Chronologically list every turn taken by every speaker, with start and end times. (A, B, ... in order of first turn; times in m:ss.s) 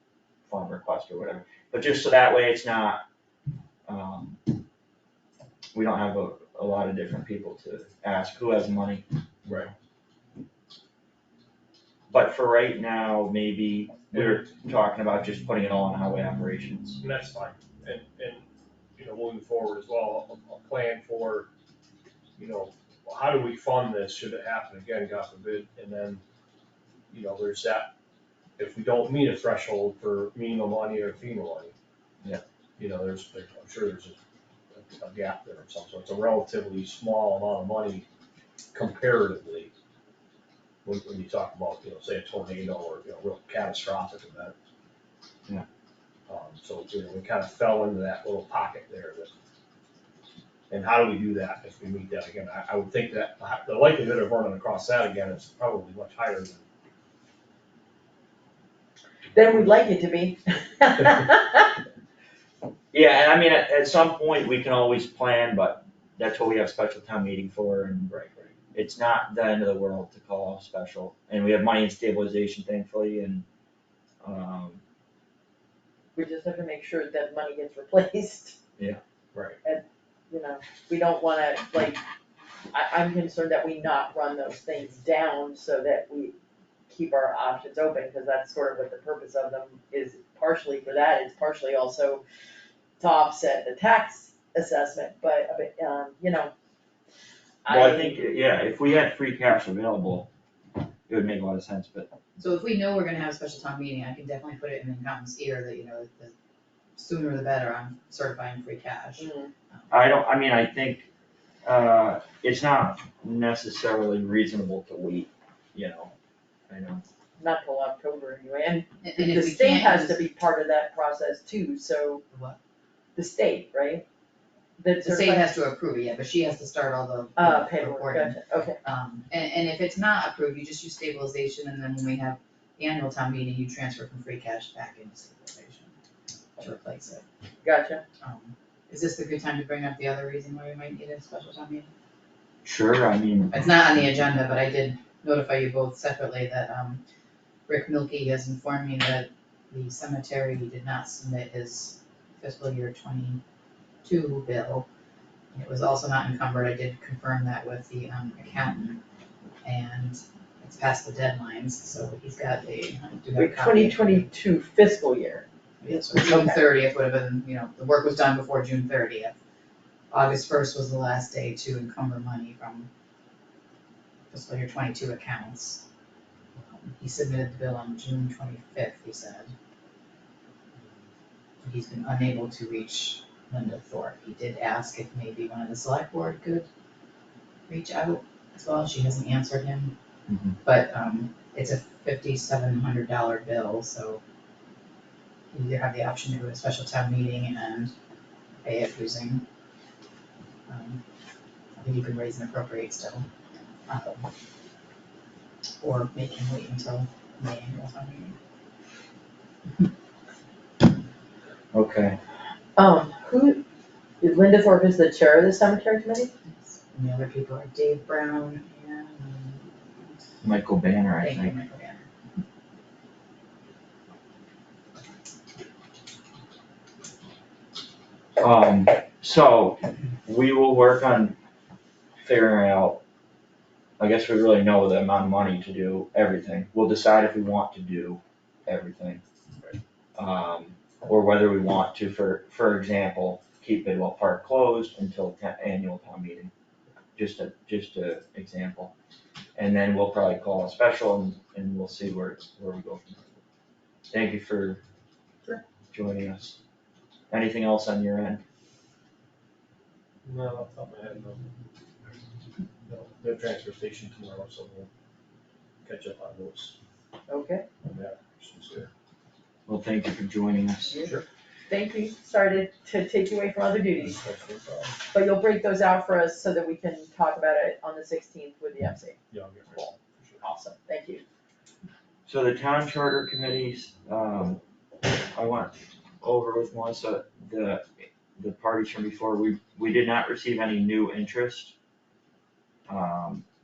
0:00.5-0:03.0 A
0:03.9-0:04.5 A
0:05.7-0:09.0 A
0:12.1-0:17.0 A
0:14.1-0:14.4 B
0:17.0-0:18.4 B
0:19.0-0:21.5 B
0:22.4-0:26.2 B
0:27.1-0:27.9 B
0:28.6-0:31.7 B
0:32.8-0:34.2 B
0:34.7-0:38.1 B
0:38.7-0:39.7 B
0:40.8-0:44.5 B
0:46.3-0:49.3 B
0:50.7-0:56.6 B
0:59.3-1:01.8 C
1:02.9-1:08.1 A
1:08.1-1:08.5 B
1:08.7-1:13.4 A
1:14.2-1:14.8 A
1:16.2-1:18.6 C
1:19.6-1:22.0 C
1:22.7-1:26.4 C
1:26.9-1:32.2 C
1:33.0-1:36.5 C
1:37.6-1:38.2 C
1:37.7-1:40.3 A
1:41.1-1:42.1 A
1:42.4-1:46.3 D
1:47.0-1:49.3 D
1:49.2-1:49.5 C
1:49.9-1:51.1 A
1:51.6-1:56.1 A
1:56.7-1:57.0 A
1:57.4-2:02.2 C
1:59.0-2:00.2 D
2:02.3-2:02.6 D
2:03.2-2:04.0 C
2:04.8-2:05.5 C
2:05.0-2:15.9 D
2:07.4-2:08.8 C
2:16.6-2:17.2 D
2:17.6-2:18.0 C
2:18.2-2:21.9 D
2:22.6-2:23.7 A
2:23.5-2:27.0 D
2:27.7-2:33.4 D
2:34.0-2:34.9 D
2:35.5-2:39.0 D
2:39.6-2:44.3 D
2:43.4-2:46.6 C
2:45.8-2:49.4 D
2:50.1-2:52.9 D
2:54.3-2:55.8 D
2:56.8-2:59.5 D
3:01.6-3:06.7 D
3:07.7-3:09.9 D
3:10.3-3:10.6 A
3:10.6-3:14.2 D
3:15.5-3:17.9 D
3:18.6-3:19.4 D
3:20.7-3:21.0 D
3:21.8-3:23.3 D
3:23.9-3:24.3 D
3:25.8-3:28.4 D
3:31.7-3:32.2 A
3:32.8-3:33.6 C
3:34.2-3:36.3 C
3:36.5-3:40.2 D
3:40.4-3:41.6 A
3:41.2-3:42.1 D
3:48.4-3:51.4 A
3:52.2-3:53.0 A
3:54.0-3:59.2 A
4:00.2-4:06.5 A
4:07.2-4:08.9 A
4:09.6-4:13.4 A
4:14.1-4:14.8 A
4:15.9-4:16.6 A
4:17.3-4:18.4 A
4:20.2-4:21.5 B
4:22.8-4:24.9 B
4:25.8-4:26.8 B
4:27.3-4:27.7 C
4:27.8-4:28.9 B
4:29.7-4:31.0 A
4:31.0-4:31.2 B
4:31.7-4:34.2 C
4:34.0-4:35.0 B
4:35.1-4:39.2 C
4:39.3-4:40.4 B
4:40.4-4:41.2 C
4:42.3-4:44.6 A
4:45.3-4:51.8 A
4:52.9-4:53.4 A